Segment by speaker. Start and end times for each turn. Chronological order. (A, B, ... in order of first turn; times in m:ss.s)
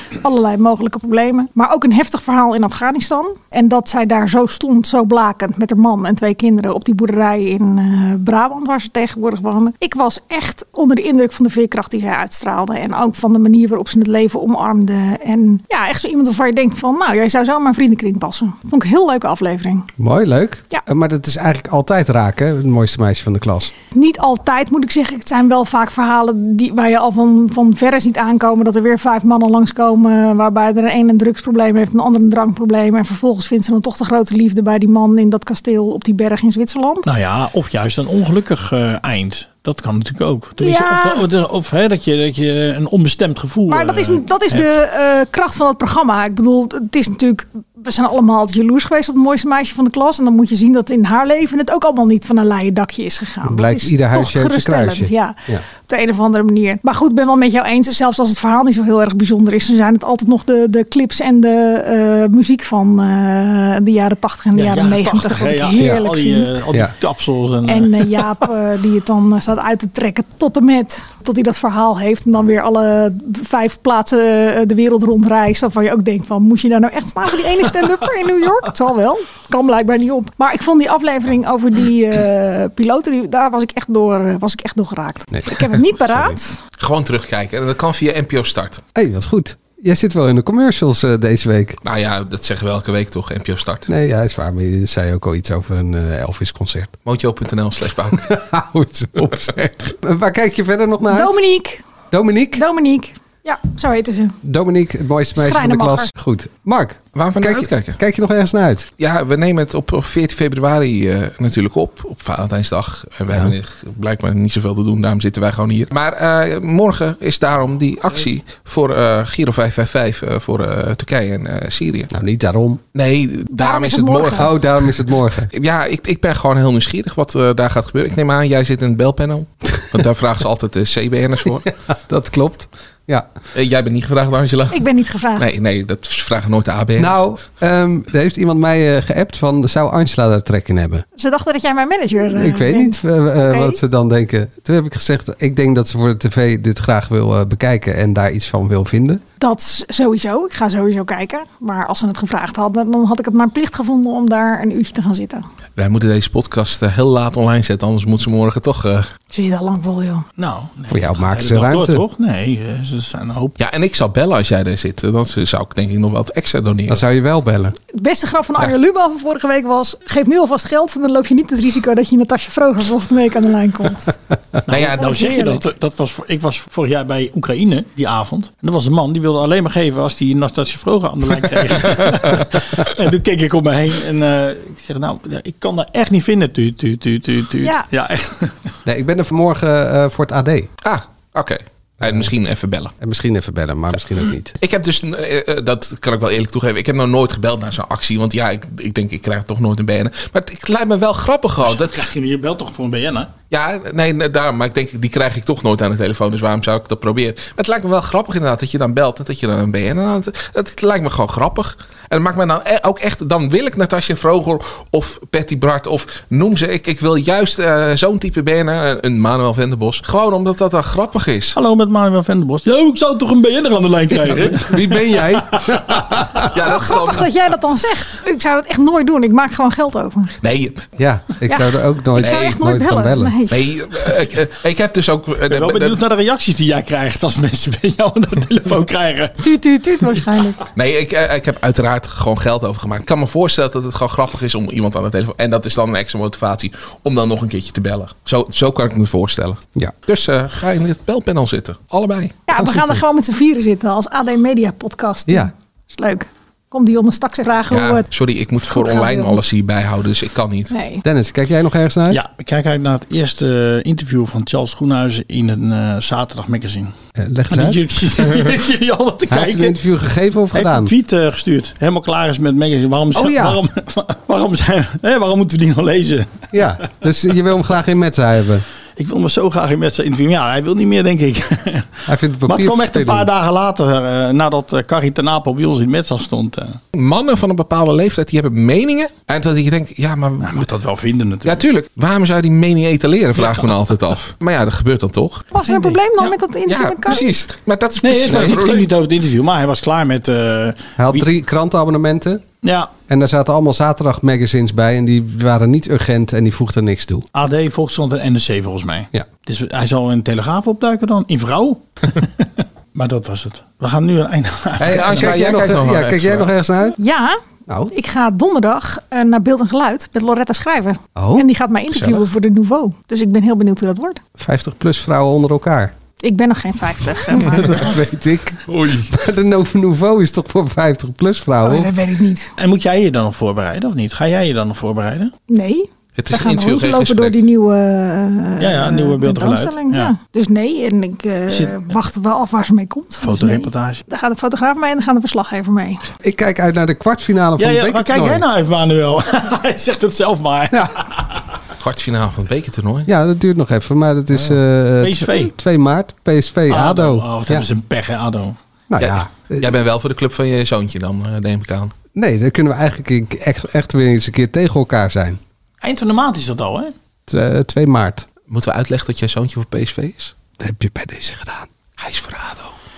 0:00.2-0:19.9 A
0:20.0-0:23.7 B
0:23.9-0:37.1 A
0:37.0-0:44.7 C
0:40.6-0:41.2 A
0:43.7-1:06.5 A
0:53.4-0:55.6 B
1:04.5-1:08.3 C
1:05.8-1:06.0 B
1:07.6-1:26.6 A
1:25.3-1:26.4 B
1:26.8-1:28.8 D
1:28.9-1:31.8 B
1:31.8-1:33.9 D
1:33.9-1:37.0 B
1:37.0-1:38.3 D
1:38.1-1:41.3 B
1:39.3-1:39.8 D
1:41.1-1:41.8 A
1:42.1-1:42.6 B
1:42.5-1:44.4 A
1:44.4-1:48.9 B
1:45.3-1:46.1 A
1:47.1-1:48.0 D
1:49.0-2:02.1 D
2:02.1-2:02.8 B
2:02.9-2:04.9 D
2:03.5-2:04.5 A
2:04.3-2:05.5 B
2:05.5-2:11.7 D
2:11.9-2:13.3 B
2:13.5-2:17.3 D
2:14.7-2:15.5 A
2:17.0-2:21.0 B
2:21.2-2:23.8 A
2:22.3-2:29.2 B
2:29.4-2:35.4 A
2:35.8-2:39.1 D
2:39.3-2:40.2 A
2:40.4-2:43.6 C
2:40.9-2:42.0 B
2:43.6-2:47.0 D
2:46.9-2:47.8 B
2:47.9-2:54.1 A
2:54.7-3:08.7 C
2:54.7-2:55.1 D
2:55.0-2:55.6 A
3:07.6-3:07.9 A
3:08.8-3:10.7 B
3:10.8-3:12.9 D
3:12.0-3:12.3 B
3:13.0-3:14.5 B
3:14.6-3:22.0 D
3:21.6-3:23.3 C
3:23.5-3:41.6 D
3:41.5-3:45.8 C
3:44.1-3:46.6 B
3:46.4-3:47.3 D
3:46.6-3:50.3 A
3:50.4-3:50.9 D
3:51.0-3:53.3 B
3:51.5-3:53.6 A
3:52.2-3:52.5 D
3:53.5-3:56.0 D
3:55.5-3:59.4 C
3:59.4-4:00.6 A
4:00.7-4:12.4 D
4:12.5-4:18.0 A
4:12.6-4:13.0 B
4:17.7-4:20.7 D
4:18.6-4:19.4 A
4:20.7-4:21.0 A
4:21.0-4:22.2 B
4:22.1-4:26.9 C
4:27.2-4:27.8 B
4:27.5-4:29.8 C
4:29.3-4:30.9 B
4:30.5-4:36.6 C
4:33.1-4:33.6 B
4:36.5-4:38.6 B
4:39.0-4:46.8 C
4:42.1-4:43.3 B
4:46.9-4:50.7 D
4:50.4-4:51.6 C
4:51.4-4:55.5 D
4:53.4-4:53.8 C
4:55.5-4:57.2 A
4:55.6-4:56.4 C
4:56.7-4:58.9 D
4:58.0-5:01.2 C
5:01.0-5:02.4 B
5:02.6-5:02.9 C
5:03.1-5:07.2 B
5:07.3-5:15.4 C
5:14.8-5:17.0 B
5:14.8-5:16.5 D
5:17.0-5:17.4 A
5:17.7-5:17.9 B
5:17.9-5:24.2 A
5:21.2-5:21.5 B
5:21.9-5:22.3 D
5:24.4-5:25.9 B
5:26.2-5:27.8 A
5:27.3-5:31.9 B
5:31.6-5:32.5 A
5:32.6-5:35.3 C
5:35.5-5:46.0 A
5:36.2-5:37.4 D
5:38.6-5:40.1 C
5:41.5-5:42.0 C
5:43.2-5:44.0 C
5:46.2-5:48.4 B
5:47.6-5:51.5 C
5:50.7-5:51.0 B
5:51.8-5:53.1 D
5:53.1-5:57.7 B
5:55.0-5:55.5 C
5:56.7-5:58.6 C
5:58.9-5:59.7 B
5:59.0-6:01.9 D
6:02.1-6:05.4 B
6:05.8-6:06.9 C
6:07.3-6:08.2 B
6:08.5-6:10.3 D
6:10.6-6:11.7 B
6:12.0-6:12.7 D